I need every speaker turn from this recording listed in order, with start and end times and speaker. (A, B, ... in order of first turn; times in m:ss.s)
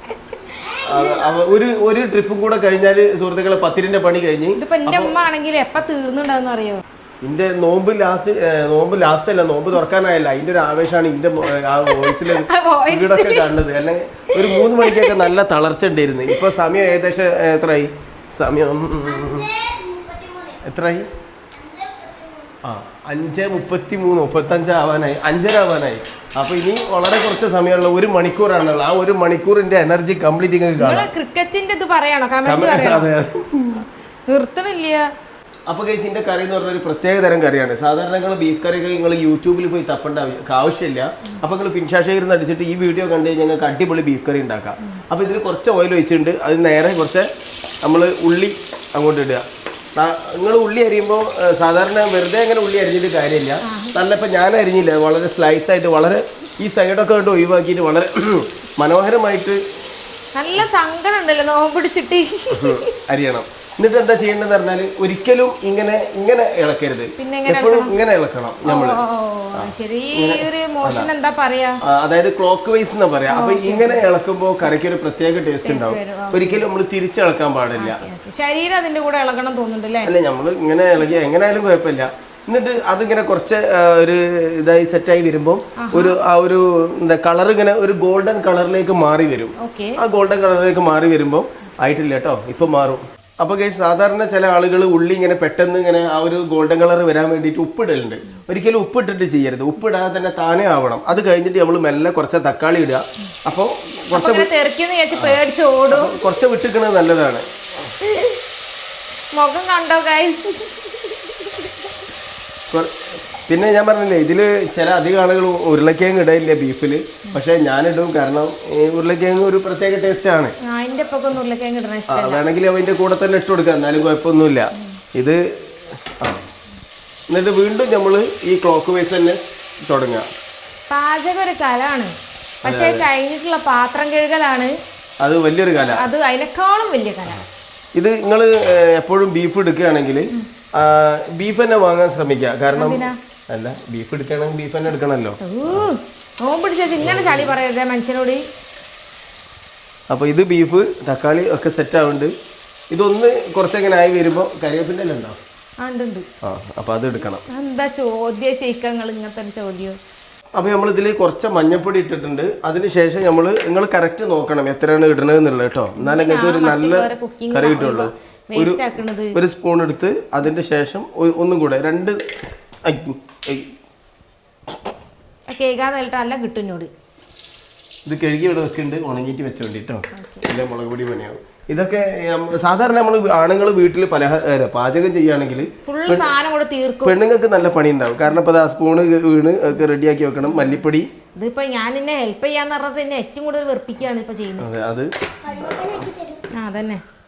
0:00.5-0:01.4 A
0:00.8-0:05.2 B
0:04.6-0:06.8 C
0:07.2-0:19.5 B
0:12.0-0:13.5 C
0:14.4-0:15.3 C
0:19.0-0:20.6 A
0:20.6-0:21.1 B
0:21.5-0:22.6 A
0:22.6-0:31.1 B
0:30.8-0:33.1 C
0:32.4-0:33.9 B
0:34.3-0:35.1 C
0:35.7-0:47.3 B
0:47.8-0:49.4 B
0:50.0-0:59.6 B
0:53.6-0:54.0 C
1:00.4-1:02.9 C
1:02.5-1:09.0 B
1:07.2-1:07.9 C
1:08.7-1:11.8 C
1:09.6-1:11.1 B
1:11.8-1:18.0 B
1:13.3-1:14.0 C
1:15.6-1:16.6 C
1:17.8-1:20.1 C
1:20.0-1:44.5 B
1:25.8-1:26.2 C
1:29.6-1:30.0 C
1:44.1-1:46.2 C
1:45.1-1:47.4 B
1:48.0-1:48.4 C
1:49.3-1:51.9 C
1:52.7-2:00.5 B
2:00.6-2:02.4 C
2:02.1-2:06.4 B
2:07.3-2:10.3 B
2:10.9-2:14.7 C
2:12.6-2:13.0 B
2:15.2-2:16.1 B
2:15.7-2:17.4 C
2:18.0-2:25.9 B
2:22.7-2:23.2 C
2:25.4-2:28.4 C
2:27.0-2:27.6 B
2:30.1-2:32.3 B
2:32.9-2:35.4 B
2:35.8-2:36.3 C
2:36.4-2:37.4 B
2:37.5-2:40.0 C
2:40.6-2:52.2 B
2:46.0-2:49.4 C
2:52.8-2:53.7 B
2:55.5-2:56.9 C
2:58.1-3:06.3 B
3:00.1-3:00.4 C
3:05.9-3:07.2 C
3:07.0-3:11.1 B
3:10.4-3:10.8 C
3:11.4-3:14.7 C
3:14.6-3:16.1 B
3:15.4-3:16.5 A
3:16.5-3:17.0 C